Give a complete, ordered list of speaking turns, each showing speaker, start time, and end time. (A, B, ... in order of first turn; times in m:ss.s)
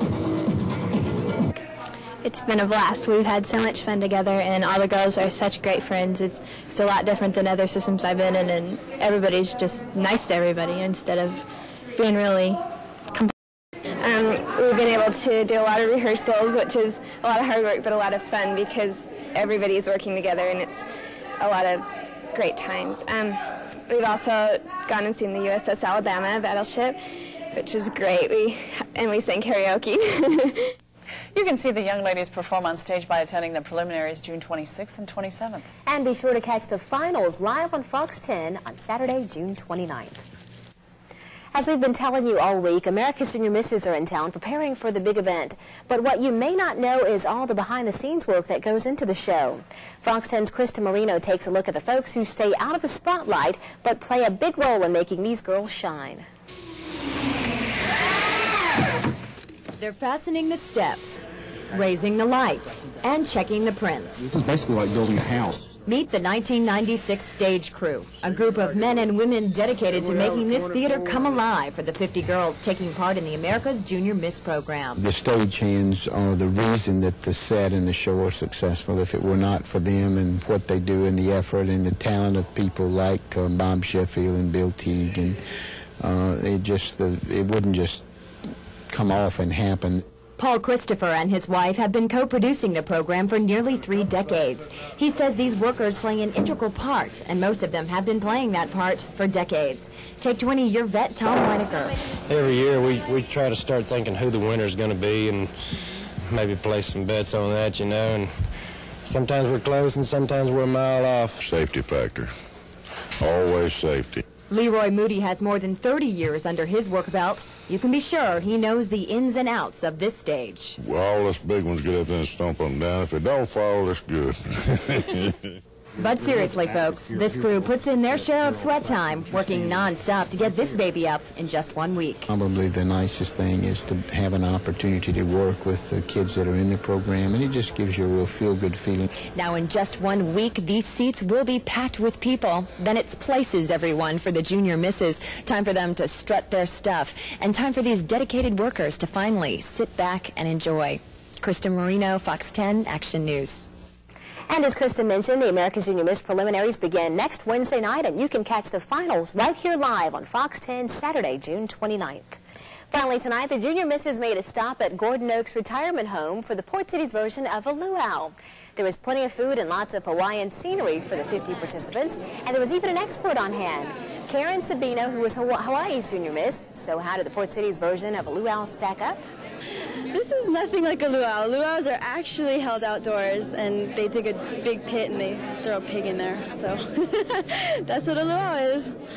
0:02.2-0:11.4 A
0:12.0-0:13.3 A
0:14.0-0:20.8 B
0:21.4-0:27.0 B
0:27.5-0:30.7 B
0:31.3-0:35.6 C
0:35.9-0:40.2 D
0:41.5-0:56.3 D
0:59.8-1:04.4 E
1:04.2-1:05.7 F
1:05.8-1:15.0 E
1:15.0-1:25.4 G
1:26.0-1:28.0 G
1:28.9-1:30.0 G
1:30.4-1:42.0 E
1:42.3-1:45.5 H
1:46.2-1:48.3 H
1:49.0-1:51.4 H
1:51.4-1:52.3 I
1:53.2-1:54.2 I
1:54.5-2:00.8 E
2:00.8-2:05.4 I
2:06.0-2:12.3 E
2:06.2-2:07.5 F
2:08.5-2:09.8 F
2:12.3-2:19.1 G
2:19.2-2:33.7 E
2:34.5-2:42.4 D
2:42.9-2:59.2 D
3:00.1-3:09.0 J